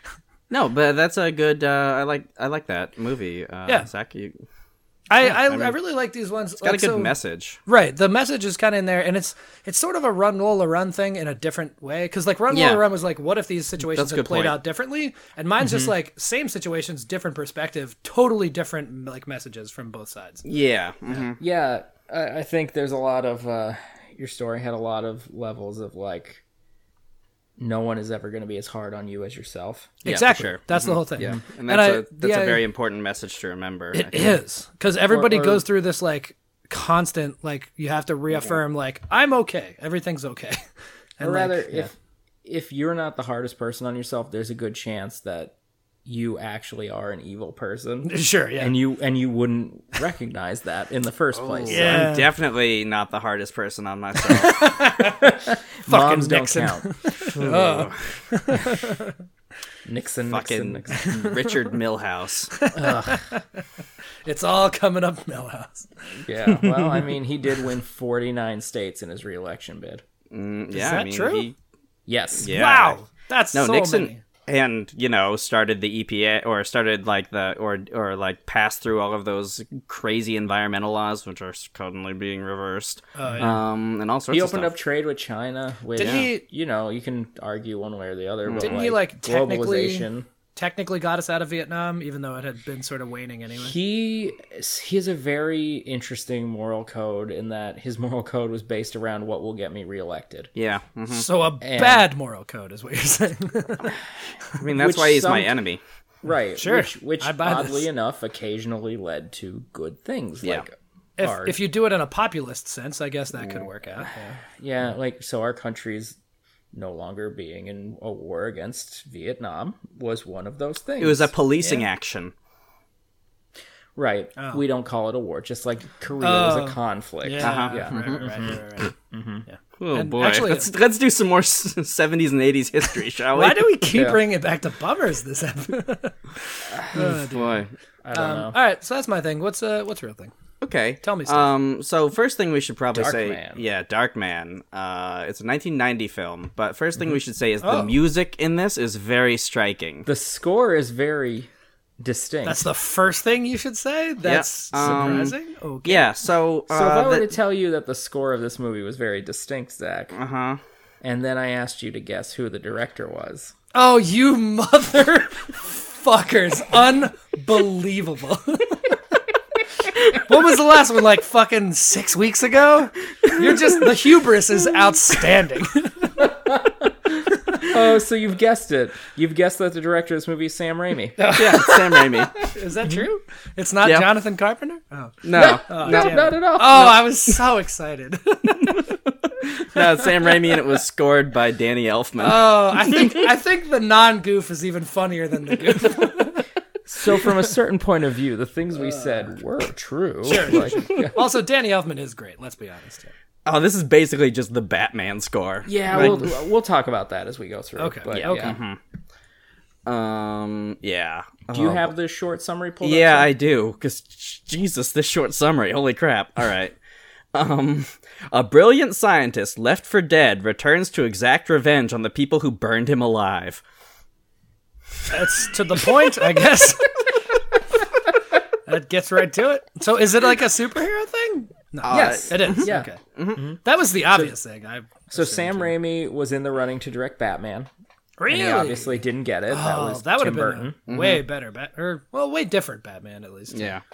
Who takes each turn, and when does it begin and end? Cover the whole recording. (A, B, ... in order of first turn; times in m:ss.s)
0:00.5-0:04.4 A
0:05.1-0:07.1 B
0:05.2-0:05.8 A
0:06.6-0:07.6 A
0:07.7-0:20.4 B
0:12.5-0:12.8 A
0:13.9-0:14.6 A
0:20.4-0:21.4 A
0:21.4-0:26.4 C
0:27.6-0:30.0 C
0:30.0-0:32.6 B
0:30.0-0:34.4 A
0:33.9-0:40.6 B
0:35.1-0:35.6 C
0:41.2-0:41.9 B
0:41.2-0:41.9 C
0:42.4-0:45.5 C
0:46.1-0:52.1 C
0:48.0-0:48.7 B
0:51.3-0:54.8 A
0:51.7-0:52.3 B
0:54.2-0:55.3 B
0:55.1-0:56.9 C
0:55.9-0:59.2 B
0:57.3-0:58.1 A
0:59.8-1:01.1 C
1:00.3-1:02.6 A
1:00.9-1:01.5 B
1:02.6-1:03.6 B
1:02.7-1:03.2 C
1:04.2-1:05.9 B
1:06.2-1:10.0 C
1:06.6-1:07.0 B
1:10.3-1:11.6 A
1:10.7-1:11.5 B
1:12.1-1:12.5 C
1:12.4-1:13.0 A
1:12.4-1:14.2 B
1:13.5-1:24.8 A
1:23.2-1:23.6 B
1:24.3-1:30.3 C
1:26.0-1:26.4 B
1:26.0-1:26.3 A
1:28.5-1:28.8 A
1:28.6-1:33.8 B
1:33.6-1:40.5 C
1:40.6-1:41.3 A
1:41.1-1:44.0 B
1:41.6-1:42.1 C
1:44.6-1:45.8 A
1:44.7-1:45.5 C
1:46.2-1:51.6 C
1:46.6-1:47.9 B
1:51.2-1:54.4 B
1:54.5-1:56.2 C
1:56.7-2:01.3 C
2:01.0-2:02.3 A
2:04.0-2:09.4 C
2:04.4-2:04.6 B
2:06.2-2:08.9 B
2:07.4-2:08.5 A
2:09.5-2:10.7 B
2:09.8-2:13.8 A
2:13.3-2:20.3 B
2:13.9-2:14.2 C
2:16.9-2:17.7 A
2:18.0-2:18.6 C
2:20.6-2:30.1 A
2:21.0-2:21.5 B
2:22.9-2:23.6 C
2:27.6-2:27.9 B
2:30.1-2:31.5 C
2:32.0-2:32.6 C
2:32.4-2:36.1 B
2:34.2-2:37.3 A
2:34.8-2:35.2 C
2:36.7-2:40.2 C
2:40.1-2:40.6 A
2:41.0-2:43.5 C
2:43.7-2:49.0 B
2:50.1-2:56.3 B
2:56.2-3:01.3 C
3:01.2-3:08.8 B
3:01.3-3:02.5 A
3:03.8-3:04.1 A
3:05.2-3:06.2 A
3:05.4-3:07.1 C
3:09.4-3:12.7 A
3:12.2-3:16.4 B
3:16.9-3:21.2 C
3:20.3-3:23.1 B
3:23.5-3:26.3 A
3:25.6-3:28.6 C
3:26.0-3:26.2 B
3:27.8-3:28.6 B
3:28.1-3:28.8 A
3:29.9-3:31.9 A
3:31.5-3:33.3 C
3:32.8-3:36.8 A
3:37.3-3:43.6 A
3:45.1-3:47.0 B
3:48.7-3:53.0 B
3:51.8-3:53.4 A
3:51.9-3:53.6 C
3:53.6-3:55.7 B
3:55.1-3:57.7 C
3:58.2-4:03.8 B
3:58.3-4:00.8 C
4:00.9-4:01.2 A
4:03.5-4:03.8 A